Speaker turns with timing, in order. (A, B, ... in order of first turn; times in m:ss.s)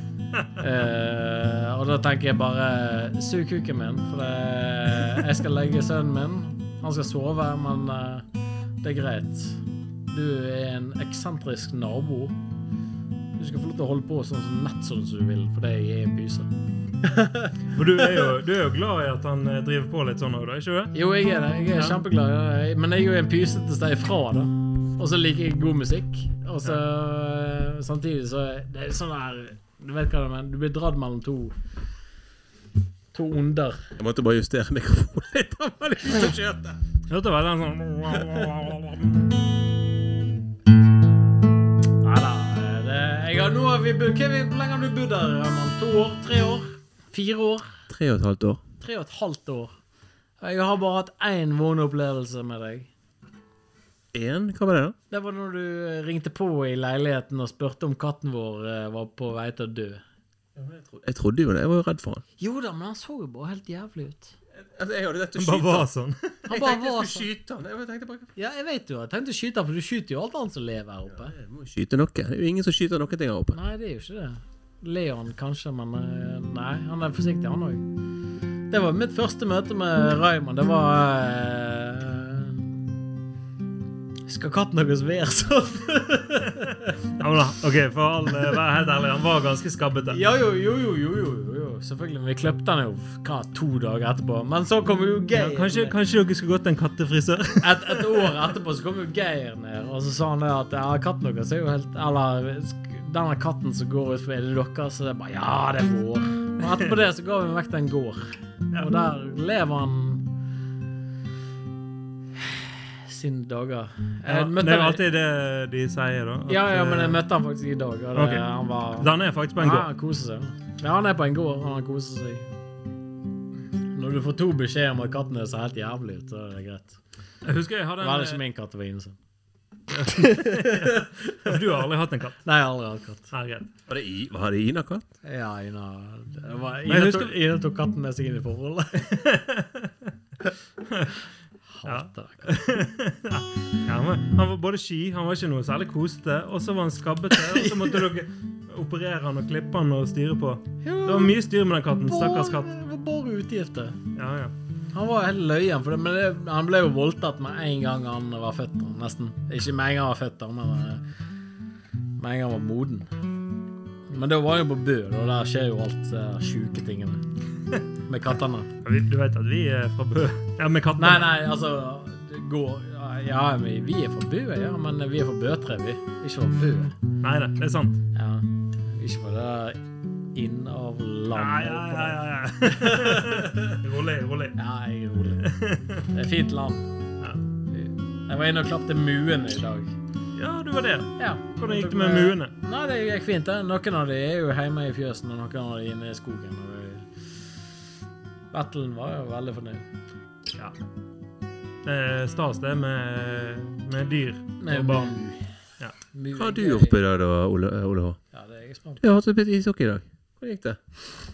0:00.6-0:08.2 A
0:08.8-0:12.4 A
0:13.4-0:16.5 A
0:17.0-0:18.3 A
0:17.7-0:20.9 B
0:20.9-0:31.6 A
0:21.7-0:22.0 B
0:33.1-0:33.9 A
0:34.0-0:36.8 C
0:37.1-0:39.3 B
0:42.0-0:47.8 A
0:47.9-0:48.6 C
0:48.8-0:49.8 A
0:50.4-0:52.9 A
0:54.1-0:55.0 C
0:55.1-1:00.0 A
1:00.6-1:02.2 C
1:02.4-1:04.3 A
1:04.6-1:05.9 C
1:05.4-1:06.4 B
1:06.5-1:07.3 A
1:06.5-1:08.3 C
1:08.4-1:11.4 A
1:11.2-1:13.6 C
1:13.5-1:17.8 A
1:18.7-1:22.6 A
1:24.3-1:26.9 A
1:27.2-1:30.2 B
1:30.1-1:35.9 A
1:35.3-1:38.3 B
1:37.6-1:50.2 A
1:46.6-1:46.9 B
1:52.4-1:55.0 A
1:54.2-1:57.2 B
1:56.5-2:02.4 A
1:58.2-1:59.9 B
2:03.9-2:07.0 A
2:07.4-2:08.4 B
2:08.0-2:09.2 A
2:09.9-2:12.4 B
2:10.0-2:11.8 A
2:12.4-2:13.3 A
2:13.3-2:13.7 B
2:13.9-2:15.0 C
2:15.2-2:19.1 A
2:16.9-2:17.3 B
2:19.0-2:20.1 B
2:20.8-2:21.2 B
2:21.7-2:22.5 A
2:21.8-2:32.7 B
2:27.3-2:28.1 A
2:30.8-2:31.4 A
2:32.0-2:34.0 A
2:34.1-2:34.5 B
2:34.9-2:41.0 A
2:42.2-2:43.1 A
2:44.1-2:47.2 A
2:48.1-2:48.7 A
2:48.8-2:51.4 B
2:51.0-2:56.9 A
2:57.2-2:58.0 B
2:58.1-2:59.8 A
3:00.3-3:03.8 A
3:01.3-3:04.6 B
3:04.6-3:05.5 A
3:05.4-3:06.0 B
3:06.1-3:06.9 A
3:07.7-3:09.9 A
3:10.4-3:12.5 B
3:11.2-3:17.1 A
3:18.5-3:19.8 A
3:21.8-3:25.1 B
3:24.6-3:25.5 A
3:26.1-3:27.0 A
3:26.3-3:28.2 C
3:28.3-3:29.0 A
3:29.0-3:30.8 C